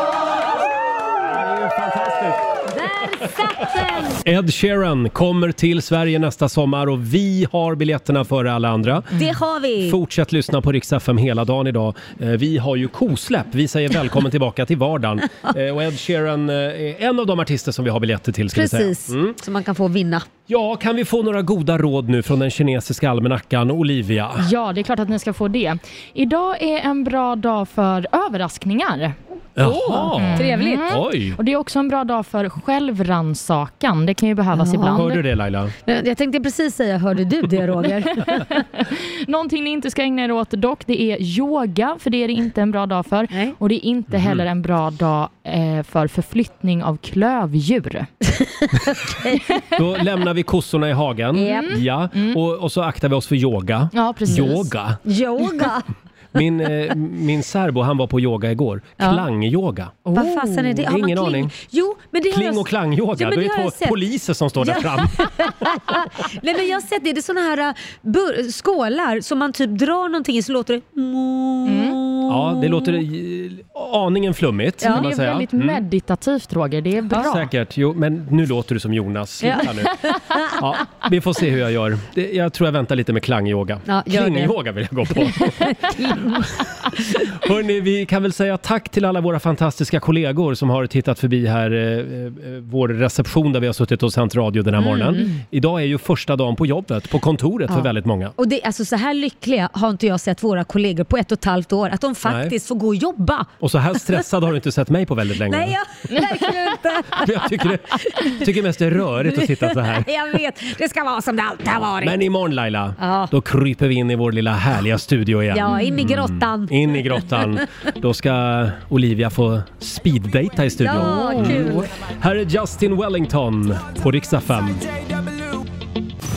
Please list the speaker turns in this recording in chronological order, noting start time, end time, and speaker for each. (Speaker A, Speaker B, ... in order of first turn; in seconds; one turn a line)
Speaker A: 1.2-2.4
Speaker B: 2.7-4.2
Speaker A: 4.1-9.2
Speaker B: 9.1-10.0
Speaker A: 9.8-19.4
Speaker B: 18.5-20.3
Speaker A: 20.5-24.4
Speaker C: 24.4-29.1
Speaker A: 29.6-31.4
Speaker B: 29.6-31.0
Speaker C: 30.2-35.1
Speaker B: 34.5-35.1
Speaker A: 34.9-35.7
Speaker B: 35.9-38.4
Speaker C: 38.3-48.1
Speaker A: 44.1-44.4
Speaker B: 48.3-48.7
Speaker A: 49.7-55.0
Speaker B: 51.4-51.7
Speaker C: 51.5-52.4
Speaker C: 53.9-54.7
Speaker B: 55.1-55.9
Speaker A: 56.3-60.1
Speaker C: 60.1-60.8
Speaker B: 60.1-64.0
Speaker A: 60.8-61.5
Speaker A: 62.3-65.8
Speaker B: 64.6-73.0
Speaker C: 71.7-72.0
Speaker A: 72.3-75.8
Speaker C: 74.8-77.5
Speaker A: 77.2-80.0
Speaker B: 79.4-80.6
Speaker A: 80.5-86.4
Speaker B: 83.9-84.5
Speaker B: 85.7-86.5
Speaker A: 87.3-98.3
Speaker B: 94.8-95.3
Speaker B: 98.4-103.5
Speaker A: 102.2-102.5
Speaker A: 103.6-105.8
Speaker B: 105.5-108.4
Speaker A: 107.1-110.1
Speaker B: 109.3-112.2
Speaker A: 112.0-124.8
Speaker B: 113.0-113.3
Speaker B: 115.5-117.6
Speaker B: 120.8-121.9
Speaker C: 121.4-121.8